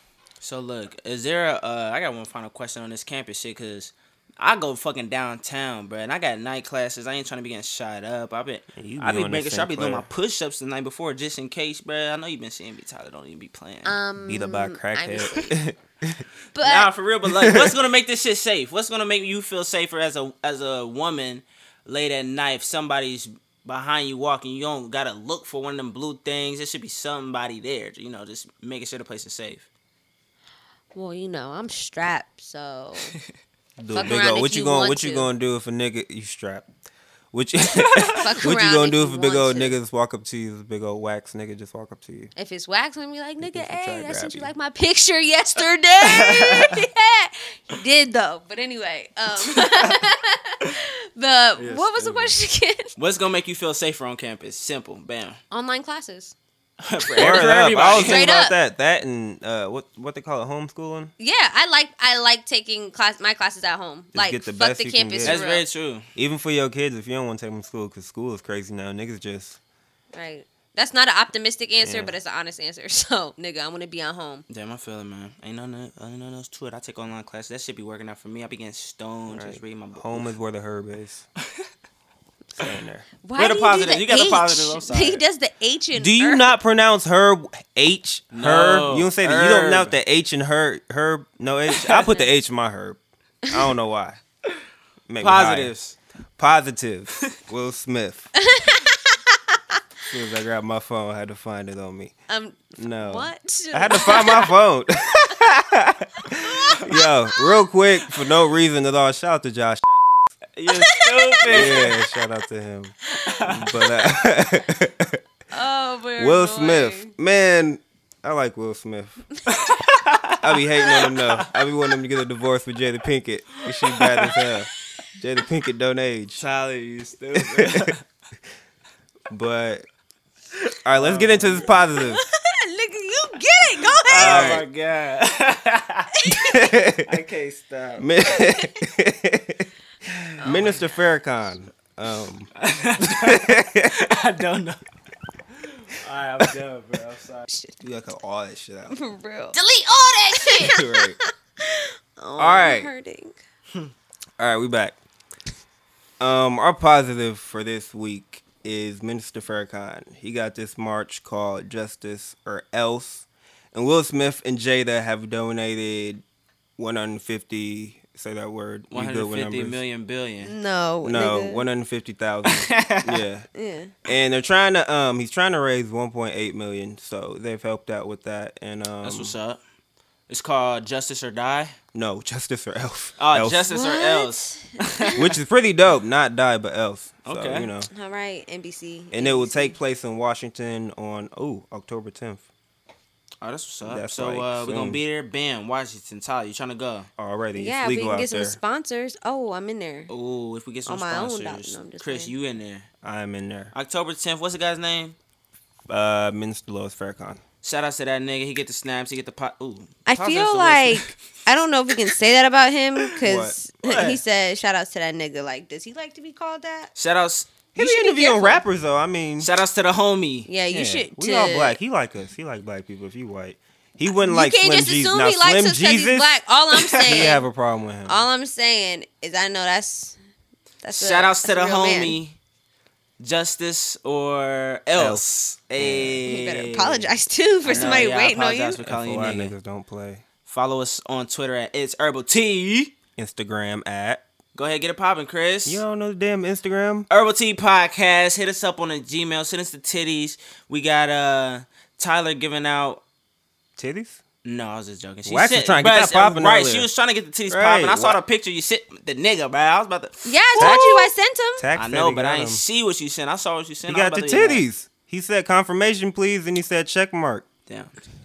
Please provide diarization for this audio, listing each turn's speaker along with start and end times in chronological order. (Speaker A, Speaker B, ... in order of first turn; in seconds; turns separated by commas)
Speaker A: 0.4-14.0, Speaker B: 8.7-10.1, Speaker C: 13.8-15.5, Speaker B: 14.2-16.2, Speaker C: 16.5-16.9, Speaker A: 16.6-29.7, Speaker B: 17.4-17.7, Speaker C: 30.9-33.1, Speaker B: 33.8-36.7, Speaker C: 33.9-35.3, Speaker B: 37.3-42.3, Speaker A: 37.7-38.3, Speaker C: 38.1-39.8, Speaker C: 42.4-52.9, Speaker B: 43.4-44.5, Speaker A: 46.0-46.8, Speaker A: 49.5-49.9, Speaker A: 51.5-52.3, Speaker A: 53.0-55.4, Speaker C: 55.5-56.3, Speaker A: 56.8-58.2, Speaker C: 57.0-58.5, Speaker B: 57.2-61.1, Speaker C: 61.2-65.6, Speaker B: 64.1-65.4, Speaker A: 65.2-66.1, Speaker B: 66.2-69.6, Speaker C: 70.1-74.4, Speaker B: 71.8-72.1, Speaker A: 74.5-80.3, Speaker B: 79.3-81.2, Speaker B: 82.5-83.1, Speaker C: 83.2-86.5, Speaker A: 83.3-85.2, Speaker B: 85.9-94.2, Speaker A: 88.3-90.0, Speaker A: 91.7-92.1, Speaker B: 95.1-95.7, Speaker A: 95.2-96.0, Speaker B: 96.4-98.3, Speaker C: 98.4-99.6, Speaker B: 100.1-102.1, Speaker C: 102.3-104.5, Speaker B: 102.7-110.0, Speaker C: 106.5-107.0, Speaker A: 110.5-112.0, Speaker C: 110.7-111.9, Speaker B: 111.5-115.2, Speaker A: 113.3-113.6, Speaker C: 115.5-117.1, Speaker B: 116.2-119.2, Speaker A: 119.5-121.5, Speaker B: 120.4-126.4, Speaker A: 123.6-124.5, Speaker A: 126.4-128.0, Speaker B: 127.3-127.9, Speaker B: 129.3-129.8, Speaker A: 130.7-131.8, Speaker B: 130.8-132.2, Speaker C: 132.0-134.5, Speaker A: 134.0-136.1, Speaker B: 134.2-134.7, Speaker C: 136.2-136.7, Speaker B: 136.3-137.1, Speaker A: 137.0-138.4, Speaker B: 138.0-139.7, Speaker A: 140.1-140.7, Speaker C: 140.4-141.0, Speaker B: 140.4-142.5, Speaker A: 142.6-144.8, Speaker B: 143.0-143.9, Speaker A: 145.6-147.4, Speaker B: 147.8-148.9, Speaker C: 148.9-153.4, Speaker A: 149.6-150.2, Speaker B: 150.5-151.2, Speaker B: 152.4-152.9, Speaker B: 154.4-154.9, Speaker B: 156.2-166.2, Speaker B: 166.8-169.8, Speaker A: 168.9-170.5, Speaker C: 170.4-171.6, Speaker B: 171.0-173.5, Speaker A: 172.4-173.2, Speaker C: 173.5-173.9, Speaker B: 174.0-179.4, Speaker A: 179.0-179.6, Speaker A: 180.3-181.8, Speaker B: 181.9-183.7, Speaker A: 183.2-185.2, Speaker C: 183.7-185.1, Speaker B: 185.2-187.9, Speaker A: 187.2-187.7, Speaker C: 187.9-189.8, Speaker B: 189.1-192.4, Speaker A: 193.4-197.1, Speaker B: 193.8-195.0, Speaker B: 197.2-198.6, Speaker C: 197.5-200.1, Speaker A: 200.1-202.9, Speaker C: 200.8-202.3, Speaker B: 203.0-203.7, Speaker A: 203.7-205.2, Speaker B: 205.9-207.4, Speaker A: 207.6-211.1, Speaker C: 210.1-216.9, Speaker B: 213.2-214.2, Speaker A: 213.8-214.2, Speaker A: 216.9-217.6, Speaker B: 217.7-219.5, Speaker C: 217.8-218.6, Speaker A: 219.4-220.5, Speaker C: 220.5-221.8, Speaker B: 220.7-226.3, Speaker C: 224.1-227.4, Speaker A: 227.0-227.3, Speaker B: 227.0-228.2, Speaker C: 228.1-230.2, Speaker C: 230.8-232.2, Speaker A: 230.9-232.4, Speaker A: 233.2-237.1, Speaker B: 234.9-236.2, Speaker C: 236.2-238.8, Speaker A: 237.6-239.5, Speaker B: 237.7-238.1, Speaker B: 238.8-240.2, Speaker A: 240.5-242.9, Speaker B: 243.2-244.2, Speaker A: 244.5-245.8, Speaker B: 245.7-247.1, Speaker A: 247.1-253.0, Speaker B: 253.8-254.2, Speaker A: 254.4-260.9, Speaker B: 255.2-256.9, Speaker B: 257.5-258.2, Speaker C: 260.2-261.7, Speaker B: 260.6-262.6, Speaker A: 261.8-264.6, Speaker B: 263.9-267.4